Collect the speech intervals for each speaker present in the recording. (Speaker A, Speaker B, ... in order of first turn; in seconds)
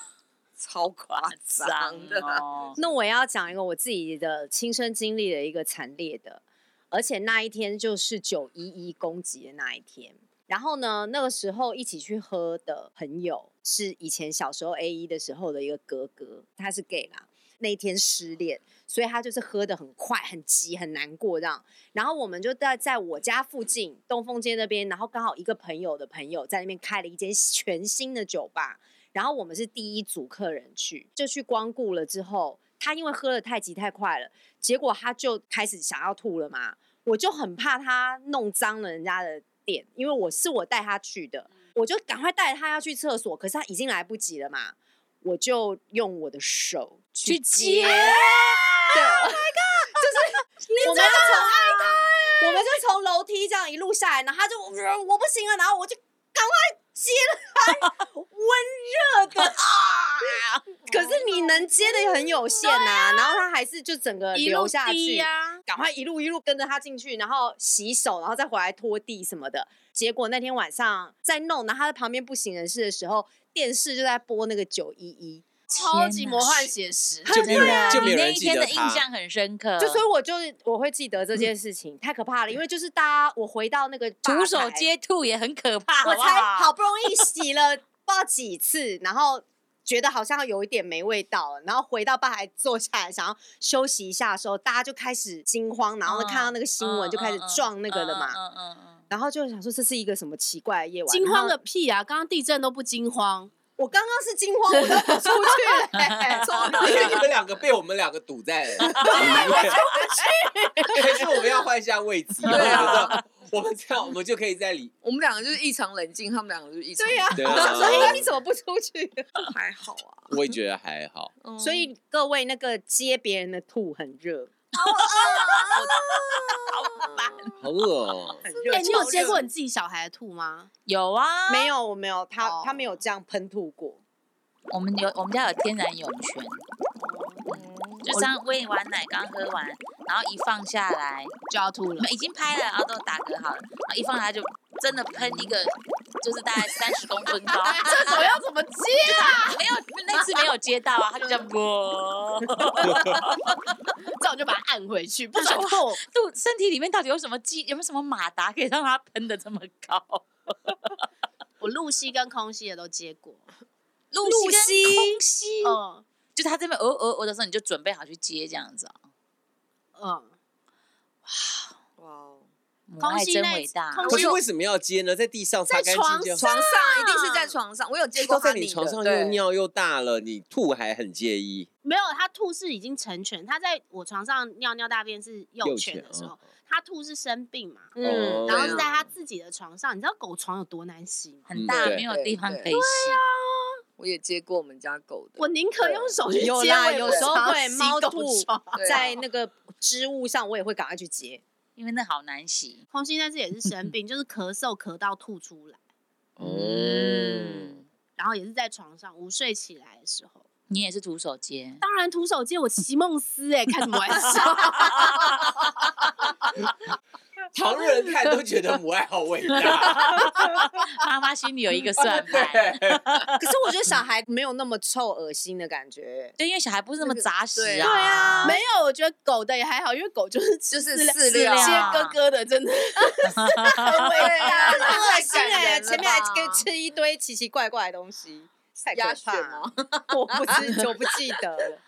Speaker A: 0.6-2.4, 60.9-62.7, 77.4-77.9, 106.3-107.3, 109.1-109.5, 112.5-113.1, 115.0-118.3, 119.5-120.3, 121.4-121.9, 124.8-126.0, 127.0-127.5, 128.4-129.4, 137.5-138.2, 145.2-145.5, 172.0-172.5, 174.0-174.4, 176.4-179.4, 188.4-188.9, 191.8-192.7, 194.0-196.2, 197.0-197.4, 198.7-199.1, 227.0-228.5, 230.7-232.0, 234.0-236.7, 238.9-241.1
Speaker B: 1.1-2.8, 47.2-49.4, 75.7-76.7, 77.3-80.0, 84.2-86.7, 96.1-99.0, 106.0-106.4, 112.5-113.2, 124.8-127.5, 130.9-131.7, 134.7-136.6, 138.1-141.3, 142.0-148.2, 149.1-153.6, 155.3-161.0, 164.1-165.8, 166.3-168.9, 171.3-171.7, 172.9-174.1, 191.5-193.2, 201.8-202.8, 206.4-207.8, 210.7-211.8, 214.4-215.6, 219.5-223.4, 226.4-228.6, 231.3-232.2, 233.4-234.0
Speaker C: 2.8-48.2, 48.9-75.5, 79.8-84.9, 86.0-98.4, 99.1-101.6, 103.8-107.2, 109.0-109.8, 117.0-119.5, 121.6-126.4, 128.4-129.5, 131.5-134.0, 164.2-165.2, 187.9-188.8, 196.4-201.4, 223.4-226.3, 234.5-241.8
Speaker D: 50.8-52.4, 62.6-63.4, 64.3-65.6, 75.7-77.7, 101.1-103.5, 104.8-105.5, 109.0-111.3, 128.7-130.7, 132.4-132.8, 137.0-137.6, 141.5-142.1, 147.6-150.4, 152.8-153.2, 154.2-156.0, 161.6-163.5, 165.6-166.0, 170.0-170.3, 173.0-174.3, 175.7-177.5, 181.8-187.9, 188.5-191.5, 192.7-193.8, 195.4-199.2, 202.9-205.8, 208.2-210.4, 211.8-215.3, 227.8-236.1
Speaker E: 77.3-79.1, 106.8-109.9, 110.9-114.9, 117.4-118.2, 120.3-121.3, 127.6-128.4, 174.1-176.4, 178.2-181.7, 185.6-186.3, 188.0-188.9, 191.5-192.1, 206.4-207.8, 217.5-220.4, 221.9-223.3